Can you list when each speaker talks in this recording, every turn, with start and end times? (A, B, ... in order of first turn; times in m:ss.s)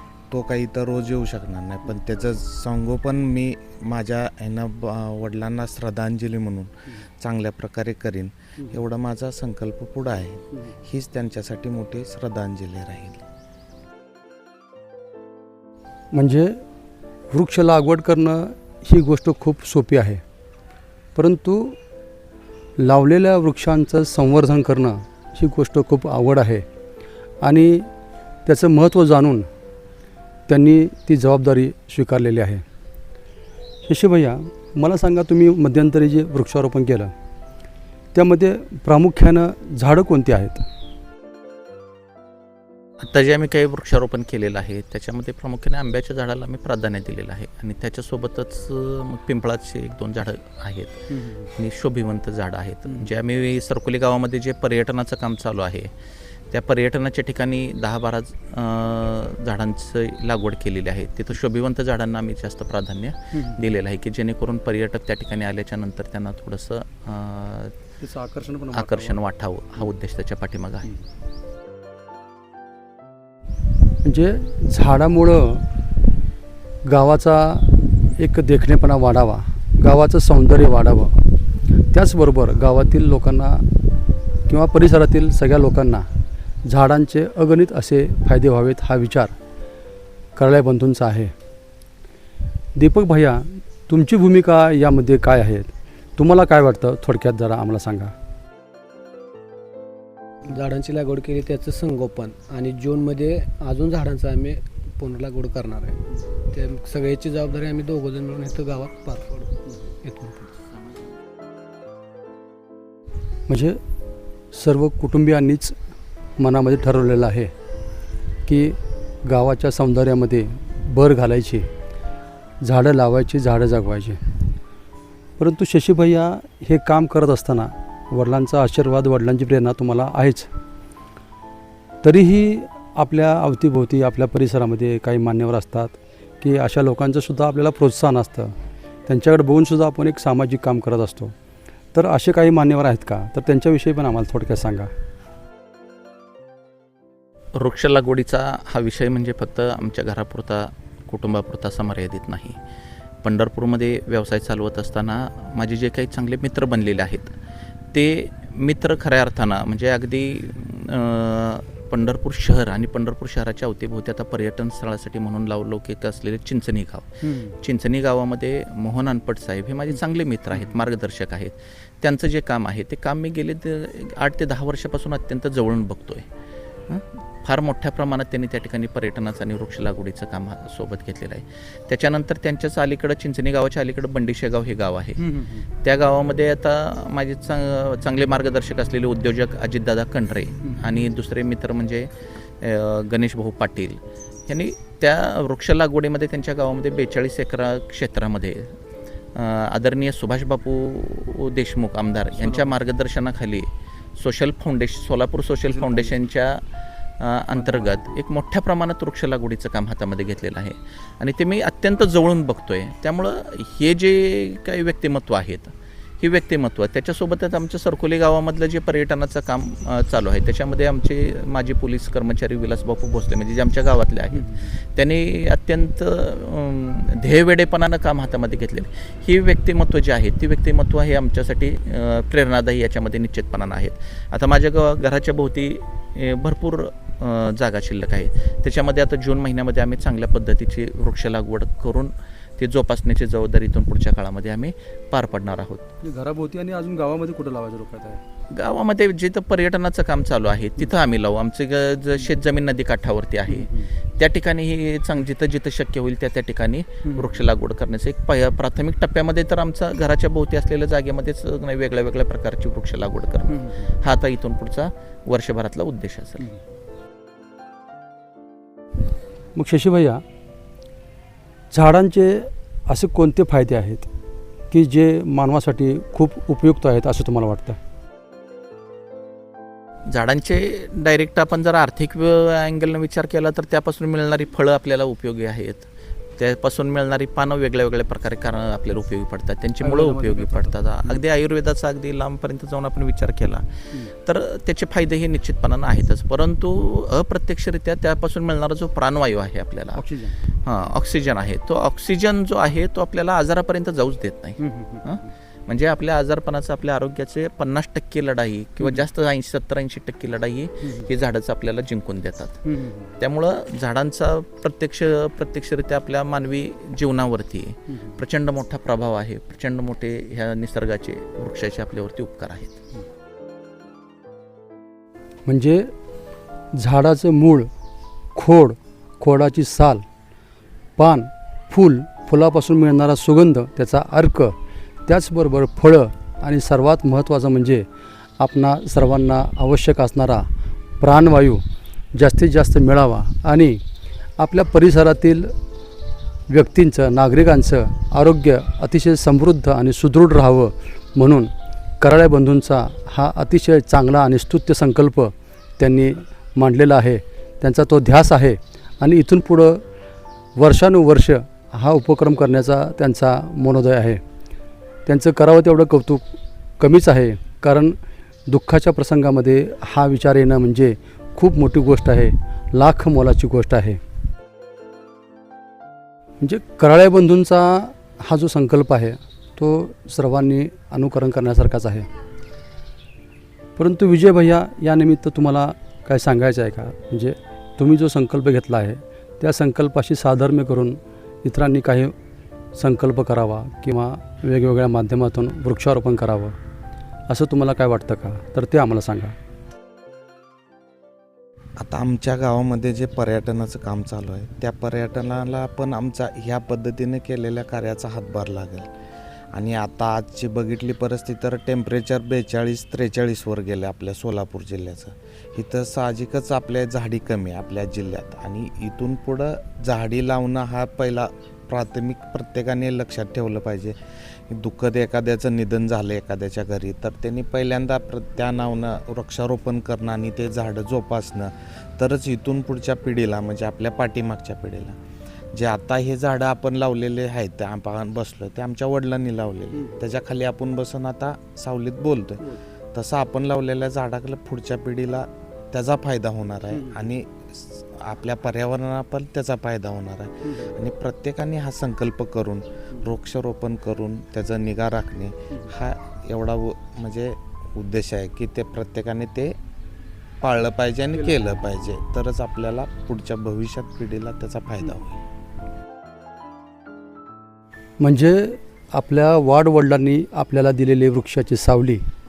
0:00.3-0:13.2 A
0:16.1-0:16.6 B
0:17.3-0:20.2 B
0:21.1-0:21.8 B
0:22.8-0:26.6 B
0:27.4-0:27.9 B
0:28.4-0:29.4 B
0:30.5-0:32.6 B
0:33.9-0:37.1 B
0:38.1-0:40.6 B
0:43.0-0:55.9 C
0:51.1-0:51.5 B
0:56.5-1:07.7 C
1:03.3-1:03.6 B
1:08.0-1:09.2 B
1:08.7-1:10.9 C
1:14.0-1:15.7 B
1:16.8-1:23.9 B
1:24.4-1:26.1 B
1:26.6-1:29.3 B
1:30.4-1:31.3 B
1:32.8-1:38.1 B
1:40.4-1:50.6 D
1:53.5-1:53.8 B
1:54.5-1:55.7 B
1:56.4-1:57.5 B
1:58.4-2:01.7 B
2:02.6-2:04.2 B
2:05.4-2:10.5 B
2:12.0-2:18.5 B
2:19.1-2:21.3 B
2:21.9-2:24.9 B
2:27.5-2:32.6 C
2:33.2-2:37.3 C
2:37.9-2:56.2 C
2:47.2-2:47.6 B
2:56.9-3:05.2 C
3:05.2-3:05.6 B
3:05.8-3:12.1 C
3:12.6-3:18.7 C
3:19.3-3:26.6 C
3:22.4-3:22.8 B
3:25.7-3:26.2 B
3:27.2-4:05.8 C
3:27.5-3:27.9 B
4:06.0-4:08.2 B
4:08.5-4:26.4 C
4:13.5-4:13.9 B
4:17.0-4:17.3 B
4:23.5-4:23.9 B
4:29.5-4:30.2 B
4:31.7-4:34.1 B
4:34.7-4:37.8 B
4:40.1-4:53.6 C
4:49.8-4:51.2 B
4:54.2-5:00.0 C
5:00.0-5:00.3 B
5:00.6-5:12.6 C
5:04.6-5:05.3 B
5:10.8-5:11.1 B
5:12.6-5:13.1 B
5:13.2-5:22.8 C
5:17.9-5:18.2 B
5:25.4-5:25.9 B
5:26.7-5:27.7 B
5:28.3-5:30.0 B
5:31.0-5:34.5 B
5:35.1-5:37.8 B
5:38.4-5:40.5 B
5:41.0-5:41.6 B
5:42.2-5:43.8 B
5:44.4-5:45.5 B
5:46.5-5:59.8 B
6:00.6-6:04.2 B
6:05.0-6:06.2 B
6:06.8-6:08.0 B
6:08.5-6:14.0 B
6:16.4-6:22.1 B
6:23.8-6:32.1 B
6:32.8-6:36.5 B
6:37.3-6:39.3 B
6:41.8-6:48.9 A
6:49.5-7:03.9 A
7:04.5-7:15.0 A
7:15.5-7:39.5 A
7:40.4-7:45.2 A
7:48.0-7:52.0 B